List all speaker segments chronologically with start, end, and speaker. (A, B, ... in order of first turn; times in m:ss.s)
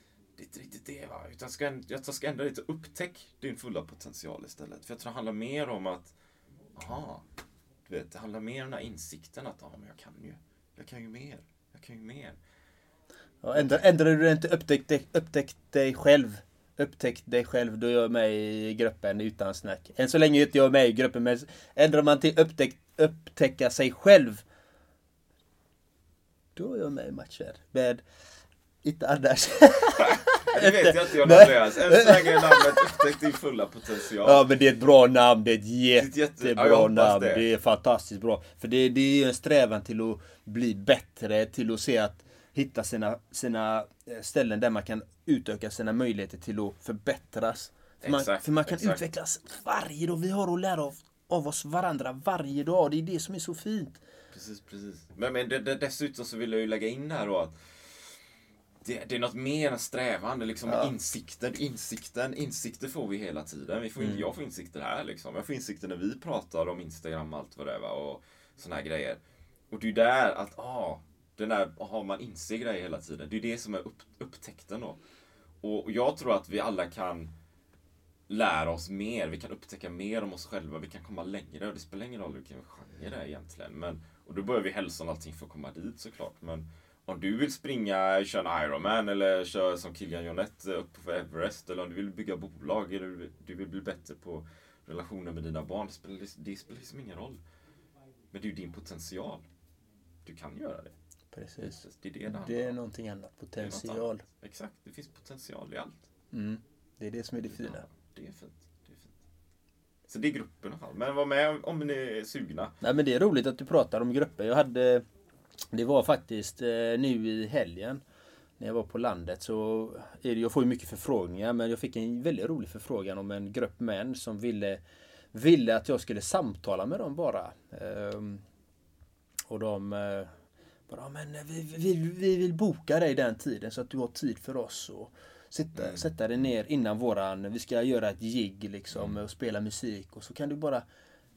0:00.4-0:06.1 A
0:06.8-0:07.2 A
0:07.8-0:12.4 A
0:13.4-0:24.4 B
0:26.6-0:28.0 B
0:28.8-0:33.0 B
0:30.0-0:34.5 A
0:34.2-0:54.0 B
0:35.9-0:37.5 A
0:48.0-0:49.0 A
0:54.3-0:58.1 A
0:58.8-1:15.0 A
1:00.6-1:00.9 B
1:04.0-1:04.3 B
1:15.6-1:17.3 A
1:18.3-1:37.4 A
1:38.3-1:39.4 A
1:40.2-1:40.9 A
1:41.3-1:44.2 B
1:41.6-1:42.8 A
1:43.6-1:46.1 A
1:46.3-1:47.8 B
1:47.5-1:49.2 A
1:50.1-1:52.7 A
1:52.8-1:55.0 B
1:55.7-1:58.0 B
1:58.6-2:04.8 B
2:05.3-2:08.4 B
2:09.5-2:10.4 B
2:10.9-2:20.8 B
2:15.8-2:16.0 A
2:18.9-2:19.2 A